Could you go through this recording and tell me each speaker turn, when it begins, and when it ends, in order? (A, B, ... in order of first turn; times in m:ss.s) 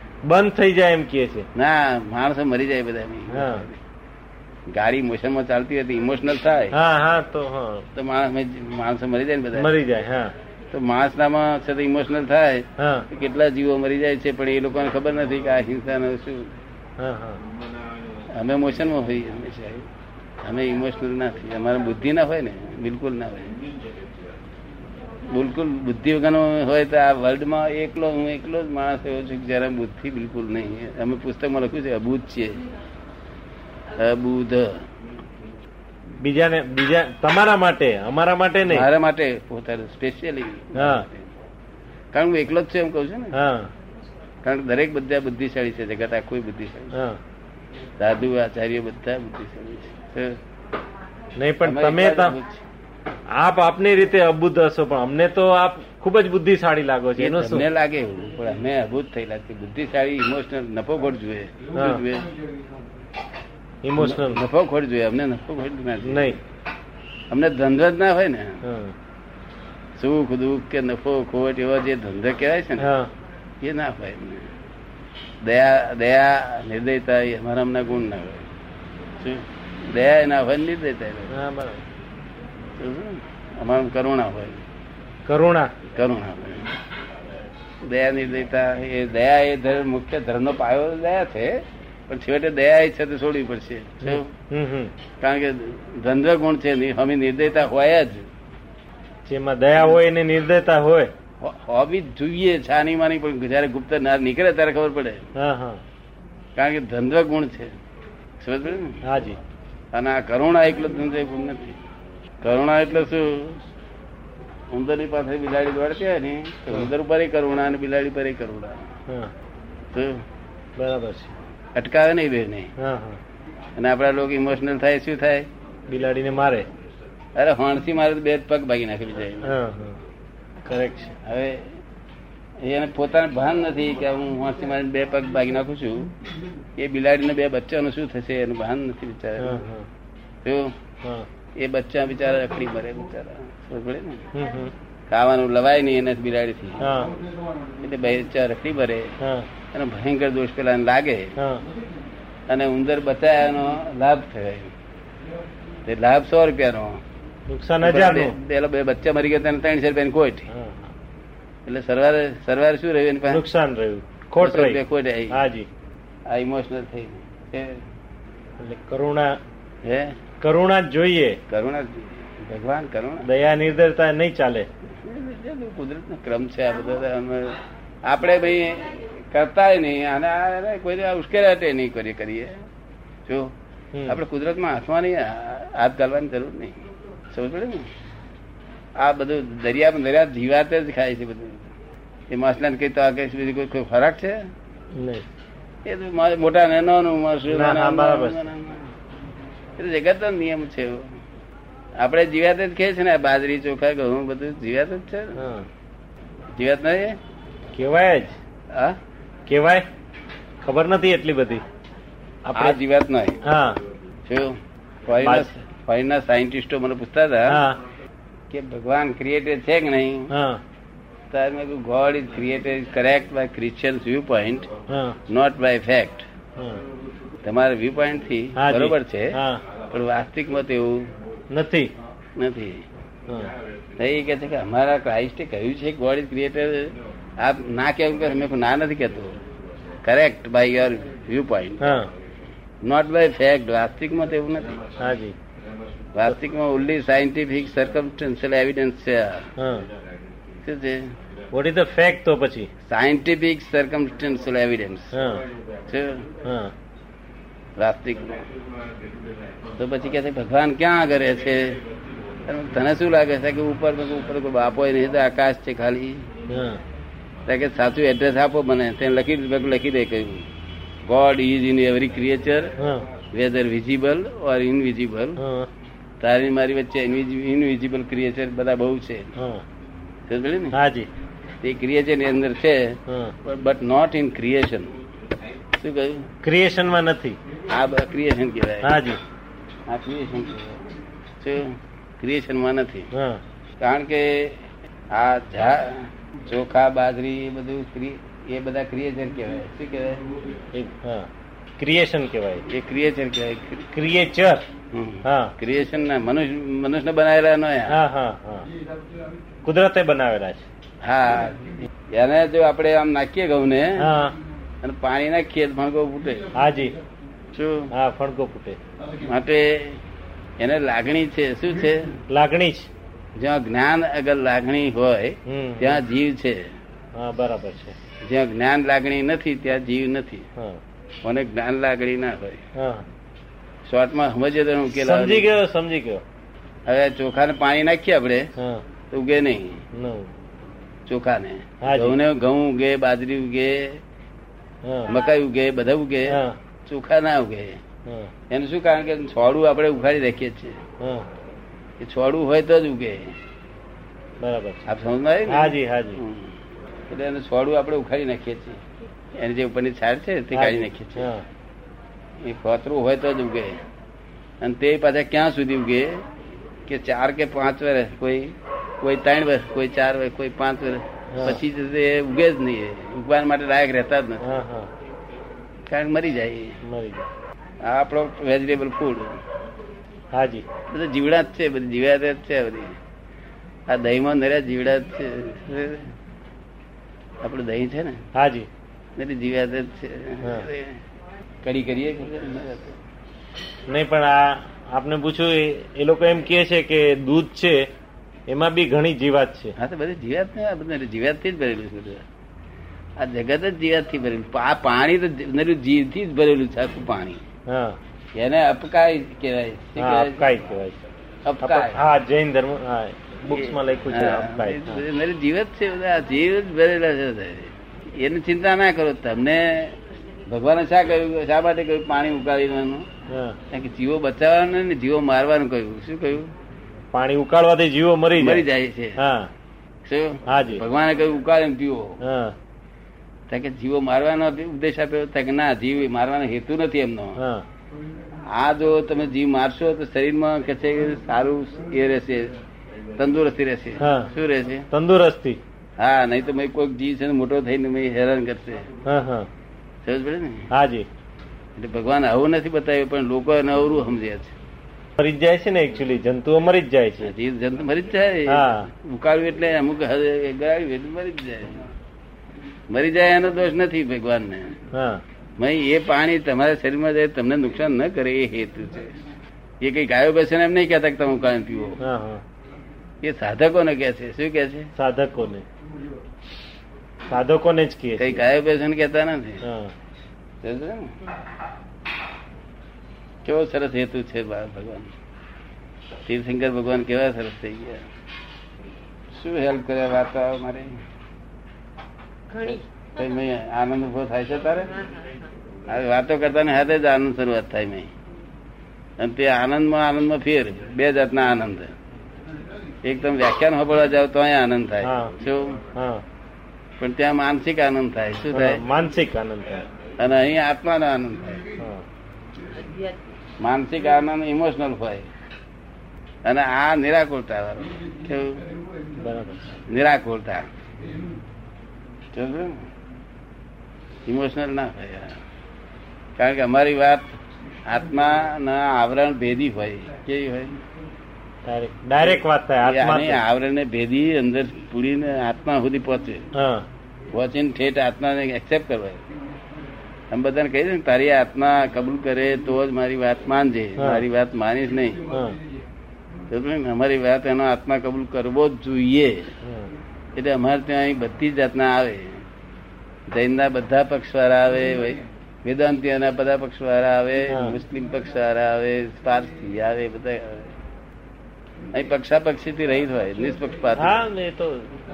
0:00.3-0:01.5 A
0:01.6-0:03.8 B
0:03.3-0:03.6 A
0:04.7-0:06.8 B
0:06.7-0:07.9 A
0:08.0-0:09.7 B
0:09.6-0:10.4 A
0:10.7-0:16.6 B
0:12.8-0:13.1 A
0:17.0-0:17.4 A
0:18.3-0:19.9 B
0:20.4-0:23.6 B
0:25.3-0:32.6 B
0:33.9-0:34.8 B
0:36.2-0:38.9 A
0:38.7-0:41.3 B
0:40.8-0:41.0 A
0:42.1-0:43.4 B
0:43.3-0:43.7 A
0:44.4-0:46.9 B
0:46.9-0:47.2 A
0:48.0-0:50.4 B
0:51.4-0:52.4 A
0:51.6-0:52.6 B
0:53.4-0:57.6 A
0:57.2-1:02.3 B
1:01.8-1:02.0 A
1:03.8-1:04.4 A
1:04.0-1:06.4 B
1:06.0-1:06.4 A
1:07.3-1:08.6 B
1:08.6-1:09.0 A
1:10.0-1:12.9 B
1:12.8-1:13.1 A
1:13.6-1:14.5 B
1:15.4-1:18.5 B
1:19.2-1:21.3 B
1:21.3-1:21.8 A
1:22.8-1:24.6 B
1:25.3-1:25.7 A
1:25.9-1:26.7 B
1:27.8-1:34.3 B
1:34.0-1:34.9 A
1:35.2-1:38.3 B
1:39.3-1:41.1 A
1:41.4-1:45.3 B
1:45.4-1:45.8 A
1:46.6-1:47.7 B
1:48.4-1:49.0 B
1:49.0-1:49.4 A
1:49.9-1:51.8 B
1:52.4-1:53.6 B
1:54.7-1:58.9 B
1:59.1-1:59.3 A
1:59.9-2:00.2 B
2:00.8-2:01.3 A
2:01.8-2:02.7 B
2:02.8-2:03.2 A
2:03.8-2:05.5 B
2:05.9-2:06.7 A
2:07.4-2:09.6 B
2:09.4-2:10.0 A
2:10.6-2:11.2 A
2:11.2-2:11.7 B
2:12.6-2:16.1 B
2:16.8-2:19.7 B
2:19.4-2:19.9 A
2:20.4-2:20.8 B
2:21.6-2:24.3 B
2:24.3-2:24.7 A
2:25.1-2:27.0 B
2:26.8-2:27.1 A
2:27.8-2:29.1 B
2:29.2-2:29.5 A
2:29.7-2:31.4 B
2:31.4-2:31.6 A
2:32.5-2:34.7 B
2:35.8-2:37.0 B
2:37.5-2:38.4 A
2:37.8-2:40.5 B
2:40.5-2:40.9 A
2:41.7-2:43.4 B
2:43.3-2:44.8 A
2:44.4-2:45.4 B
2:45.3-2:45.7 A
2:46.3-2:47.8 B
2:48.6-2:49.4 A
2:49.8-2:50.2 B
2:50.4-2:51.4 A
2:51.5-2:53.3 B
2:53.2-2:54.7 A
2:54.9-3:02.6 B
3:03.3-3:03.5 B
3:04.1-3:07.9 B
3:09.0-3:11.7 B
3:12.3-3:14.5 B
3:14.9-3:15.3 A
3:15.8-3:18.9 B
3:17.5-3:18.5 A
3:19.8-3:21.1 B
3:22.0-3:25.4 B
3:25.4-3:25.7 A
3:26.6-3:27.2 B
3:27.8-3:28.4 A
3:28.7-3:29.0 B
3:29.5-3:29.8 A
3:30.6-3:31.6 A
3:32.5-3:32.8 A
3:32.5-3:33.4 B
3:33.4-3:33.8 A
3:34.3-3:37.6 B
3:35.2-3:35.5 A
3:37.5-3:37.8 A
3:38.5-3:40.3 B
3:40.3-3:40.6 A
3:41.3-3:44.7 B
3:44.9-3:45.2 A
3:45.3-3:46.3 B
3:46.6-3:46.8 A
3:47.4-3:51.1 B
3:48.6-3:49.6 A
3:51.5-3:51.9 A
3:52.4-3:52.8 B
3:53.3-3:53.5 A
3:54.0-3:59.4 B
4:00.0-4:01.9 B
4:01.8-4:02.1 A
4:02.8-4:04.8 B
4:05.0-4:05.4 A
4:06.2-4:09.5 B
4:09.6-4:09.9 A
4:10.6-4:11.2 B
4:11.5-4:12.7 A
4:12.8-4:15.1 B
4:15.1-4:15.5 A
4:15.9-4:16.3 B
4:16.4-4:16.7 A
4:17.8-4:18.5 B
4:19.8-4:21.8 B
4:22.4-4:26.3 B
4:26.5-4:26.8 A
4:27.5-4:30.5 B
4:31.1-4:32.8 B
4:32.8-4:33.1 A
4:33.3-4:35.4 B
4:35.4-4:35.7 A
4:36.2-4:39.3 B
4:39.4-4:39.6 A
4:40.3-4:40.8 B
4:40.7-4:41.1 A
4:41.6-4:45.0 B
4:43.1-4:43.4 A
4:45.8-4:46.3 B
4:46.4-4:47.4 A
4:47.7-4:49.0 B
4:48.8-4:49.2 A
4:49.9-4:50.9 B
4:51.4-4:53.1 B
4:53.1-4:53.4 A
4:53.8-4:54.6 B
4:55.1-5:00.2 B
5:00.7-5:02.6 A
5:02.7-5:03.9 B
5:03.9-5:04.6 A
5:04.9-5:08.0 B
5:05.2-5:05.5 A
5:07.9-5:08.7 A
5:09.6-5:10.6 A
5:11.0-5:14.1 B
5:14.0-5:14.4 A
5:14.8-5:16.5 B
5:16.6-5:17.0 A
5:17.5-5:17.9 B
5:17.9-5:18.8 A
5:19.2-5:20.0 B
5:20.6-5:22.2 B
5:22.3-5:22.9 A
5:23.4-5:26.7 B
5:25.5-5:26.0 A
5:27.2-5:28.0 A
5:28.2-5:30.5 B
5:31.2-5:32.6 B
5:32.8-5:33.1 A
5:33.9-5:35.5 B
5:34.9-5:36.2 A
5:36.9-5:38.5 B
5:38.6-5:38.8 A
5:39.1-5:39.8 B
5:39.9-5:40.3 A
5:41.1-5:44.0 B
5:41.8-5:42.2 A
5:44.8-5:45.1 A
5:45.1-5:47.8 B
5:46.3-5:46.6 A
5:48.1-5:48.3 A
5:48.5-5:50.8 B
5:51.0-5:51.3 A
5:52.0-5:53.4 B
5:54.4-5:54.8 A
5:54.9-5:56.6 B
5:55.5-5:56.2 A
5:57.1-5:58.8 B
5:59.4-6:01.3 B
6:00.5-6:01.4 A
6:02.4-6:03.8 B
6:04.6-6:06.2 B
6:06.9-6:14.5 B
6:11.3-6:11.6 A
6:14.4-6:14.9 A
6:15.9-6:16.8 B
6:16.8-6:17.3 A
6:17.8-6:19.4 B
6:20.3-6:20.6 A
6:20.9-6:23.0 B
6:23.9-6:26.1 B
6:27.4-6:28.2 B
6:28.4-6:28.7 A
6:29.2-6:31.0 B
6:31.6-6:33.0 B
6:33.9-6:37.9 A
6:38.5-6:39.7 A
6:39.8-6:42.2 B
6:43.2-6:47.4 B
6:47.7-6:48.0 A
6:48.4-6:50.6 B
6:50.0-6:51.0 A
6:51.5-6:52.1 B
6:51.6-6:55.0 A
6:53.5-7:03.1 B
7:03.3-7:03.6 A
7:03.7-7:06.5 B
7:07.1-7:08.6 A
7:08.4-7:09.2 B
7:09.2-7:09.5 A
7:10.0-7:12.2 B
7:10.5-7:10.8 A
7:12.2-7:12.6 A
7:13.5-7:17.4 B
7:17.4-7:17.7 A
7:18.5-7:22.5 B
7:23.2-7:24.9 B
7:24.0-7:24.3 A
7:24.9-7:25.6 A
7:26.0-7:28.9 B
7:29.1-7:29.5 A
7:30.0-7:30.7 B
7:30.7-7:31.1 A
7:31.8-7:34.6 B
7:35.2-7:37.3 A
7:37.2-7:41.9 B
7:38.5-7:38.9 A
7:42.9-7:44.8 B
7:44.9-7:45.2 A
7:45.6-7:49.2 B
7:49.8-7:52.0 B
7:52.0-7:52.4 A
7:53.2-7:54.9 B
7:55.0-7:55.6 A
7:57.3-7:58.4 A
7:58.2-7:59.6 B
7:59.6-7:59.9 A
8:00.6-8:01.1 B
8:03.4-8:05.1 B
8:06.3-8:08.0 B
8:09.3-8:10.9 B
8:12.5-8:13.4 C
8:12.6-8:14.9 B
8:14.9-8:15.5 C
8:15.9-8:18.1 B
8:19.2-8:21.9 B
8:23.0-8:25.8 B
8:25.0-8:25.3 A
8:26.0-8:26.2 A
8:27.0-8:28.8 B
8:28.5-8:29.9 A
8:30.2-8:31.7 B
8:31.8-8:32.0 A
8:32.7-8:33.2 C
8:33.6-8:35.3 B
8:36.4-8:38.6 B
8:39.2-8:39.6 A
8:39.9-8:40.7 B
8:42.3-8:42.8 B
8:44.3-8:45.4 B
8:46.4-8:47.3 B
8:47.8-8:50.8 B
8:51.7-8:53.4 A
8:52.2-8:56.5 B
8:56.6-8:56.9 A
8:57.3-8:59.2 B
9:00.3-9:05.2 B
9:04.0-9:04.2 A
9:05.3-9:05.6 A
9:06.5-9:09.6 B
9:09.6-9:09.9 A
9:10.4-9:12.4 B
9:13.3-9:20.7 B
9:17.5-9:17.8 A
9:21.9-9:24.3 B
9:24.0-9:24.9 A